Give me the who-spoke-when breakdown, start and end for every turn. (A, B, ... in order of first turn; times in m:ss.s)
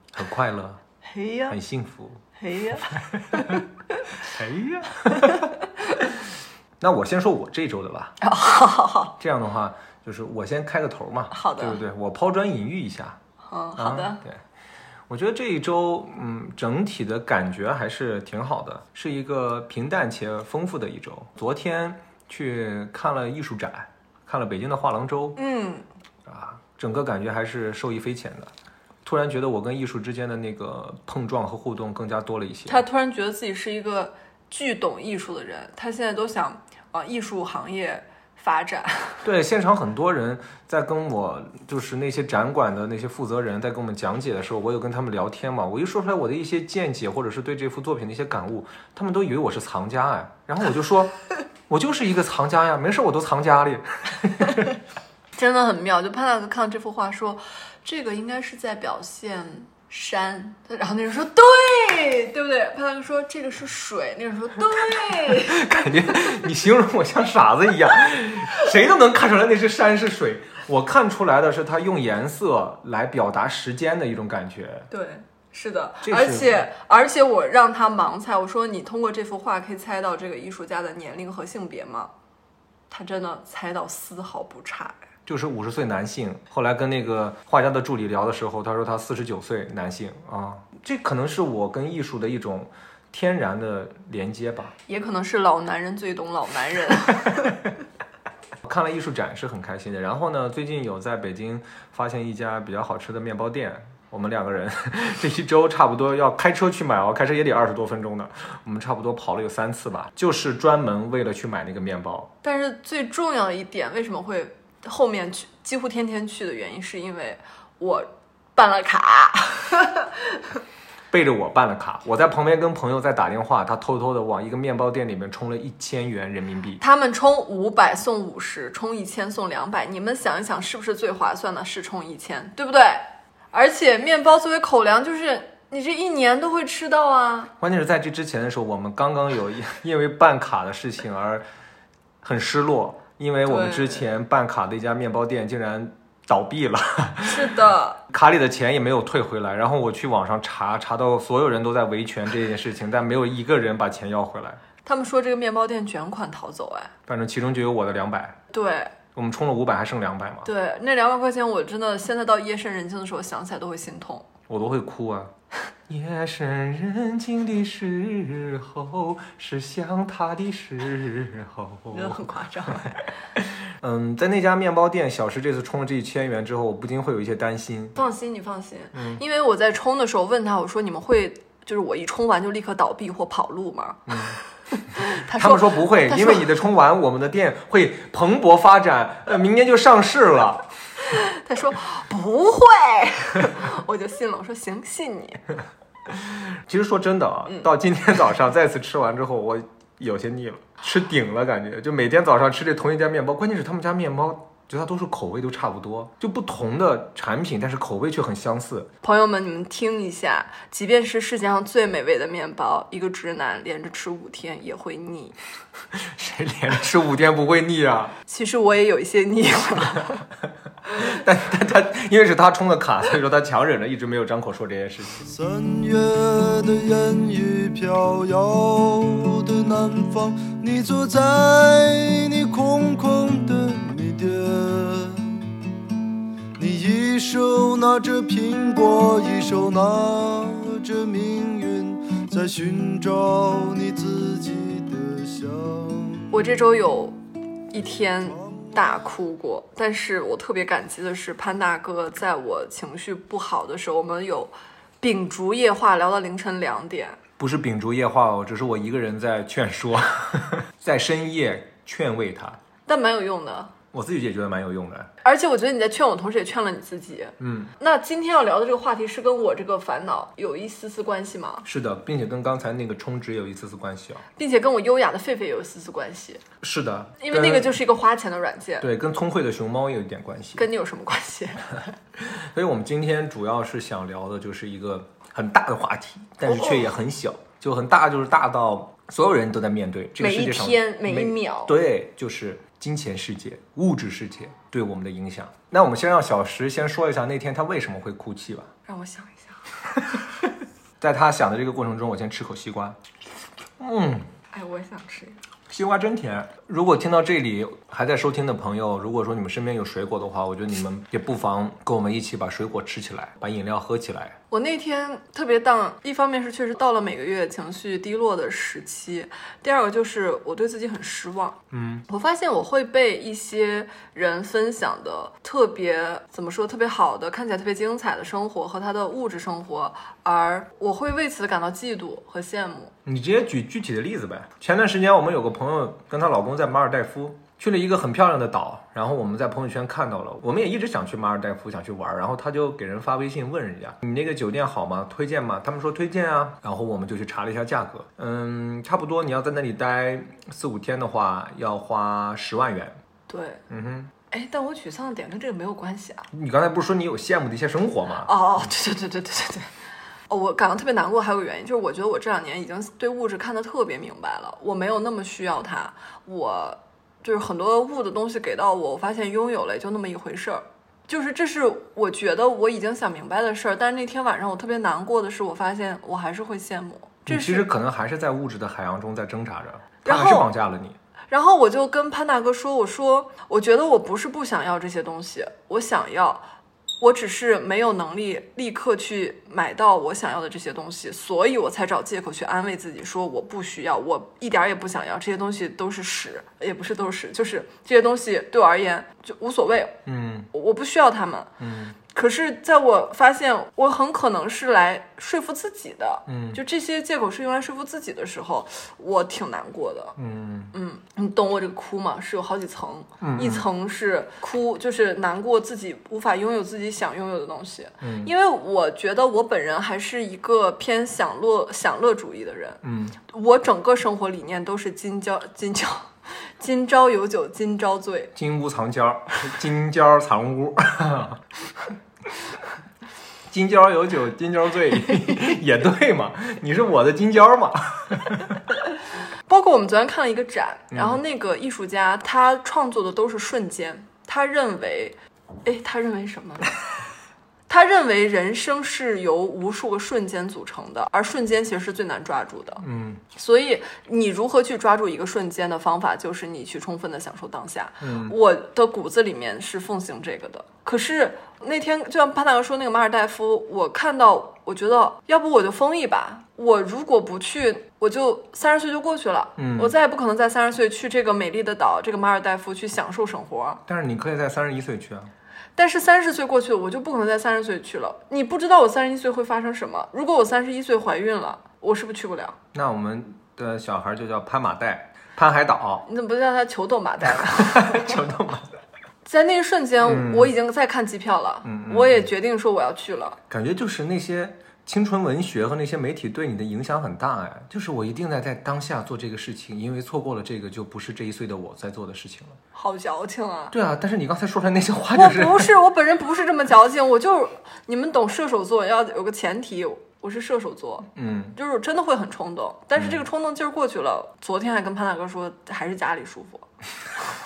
0:00.1-0:00.8 A
0:01.0-0:01.6 B
0:01.5-0:02.2 A
0:02.4-0:03.6 B
0:02.9-0:03.6 A
0:04.2-0:05.5 A
0:06.8-0:08.1 A
0:08.2-0:09.1 B
0:09.2-0:13.2 A
0:11.3-0:11.8 B
0:13.4-0:14.2 B
0:13.8-0:14.4 A
0:15.1-0:25.4 A
0:25.4-0:25.8 B
0:26.2-0:28.5 A
0:29.0-0:32.8 A
0:32.6-0:39.2 B
0:39.2-0:54.7 A
0:55.4-1:06.4 B
1:04.9-1:14.9 A
1:14.9-1:22.1 B
1:16.0-1:16.7 A
1:22.9-1:25.0 B
1:25.2-1:34.7 A
1:34.9-1:37.6 B
1:38.6-1:52.3 A
1:52.4-2:00.1 B
2:01.1-2:06.8 A
2:06.8-2:17.5 B
2:17.6-2:21.4 A
2:22.2-2:34.6 A
2:23.4-2:24.1 B
2:27.2-2:28.0 B
2:34.8-2:36.9 B
2:37.1-2:38.4 A
2:38.5-2:38.9 B
2:39.1-2:40.5 A
2:40.4-2:44.3 B
2:44.5-2:45.3 A
2:45.9-2:58.0 A
2:51.9-2:53.0 B
2:57.9-3:04.1 B
2:58.9-2:59.2 A
3:04.1-3:04.4 A
3:04.7-3:06.5 B
3:05.0-3:10.7 A
3:11.0-3:15.4 B
3:16.1-3:28.9 A
3:29.0-3:35.3 B
3:35.9-3:38.2 A
3:38.3-3:40.2 B
3:40.9-3:45.3 A
3:45.3-3:55.4 C
3:56.6-4:06.6 C
4:06.3-4:07.2 B
4:07.7-4:17.2 B
4:07.8-4:09.0 C
4:17.4-4:22.6 A
4:22.8-4:23.7 B
4:23.9-4:25.1 A
4:25.2-4:31.6 B
4:27.4-4:27.7 A
4:31.6-4:34.2 A
4:34.4-4:36.4 B
4:36.6-4:37.8 A
4:37.2-4:38.9 B
4:38.8-4:40.7 A
4:40.6-4:41.8 B
4:42.2-4:58.7 A
4:46.4-4:46.8 B
4:50.2-4:51.7 B
4:58.9-4:59.6 B
5:01.0-5:03.0 A
5:03.8-5:04.3 A
5:04.5-5:05.4 B
5:05.7-5:14.4 A
5:14.5-5:32.9 B
5:21.7-5:22.0 A
5:33.0-5:53.0 A
5:53.3-5:53.6 B
5:53.7-5:54.1 A
5:54.3-5:56.3 B
5:56.3-5:58.3 A
5:58.2-5:59.7 B
6:00.3-6:17.7 B
6:17.2-6:21.0 A
6:20.0-6:20.5 B
6:21.3-6:26.4 B
6:27.0-6:40.0 B
6:40.0-6:40.5 A
6:40.5-6:41.5 B
6:41.6-6:42.0 A
6:42.1-6:50.1 B
6:46.3-6:46.6 A
6:50.2-6:50.7 A
6:50.7-7:08.3 B
6:53.2-6:53.7 A
6:58.0-6:58.3 A
7:02.8-7:03.2 A
7:08.3-7:11.4 A
7:13.5-7:18.6 A
7:19.5-7:26.7 B
7:20.9-7:21.2 A
7:27.7-7:53.8 B
7:32.8-7:33.2 A
7:38.0-7:38.4 A
7:49.6-7:49.9 A
7:53.8-7:55.3 A
7:55.8-8:02.6 B
8:02.7-8:06.0 A
8:06.0-8:08.2 B
8:07.3-8:08.7 A
8:09.2-8:13.4 B
8:10.0-8:10.5 A
8:11.6-8:12.3 A
8:13.5-8:22.6 A
8:22.7-8:23.7 B
8:23.7-8:25.7 A
8:25.1-8:36.6 B
8:31.1-8:31.6 A
8:33.0-8:33.2 A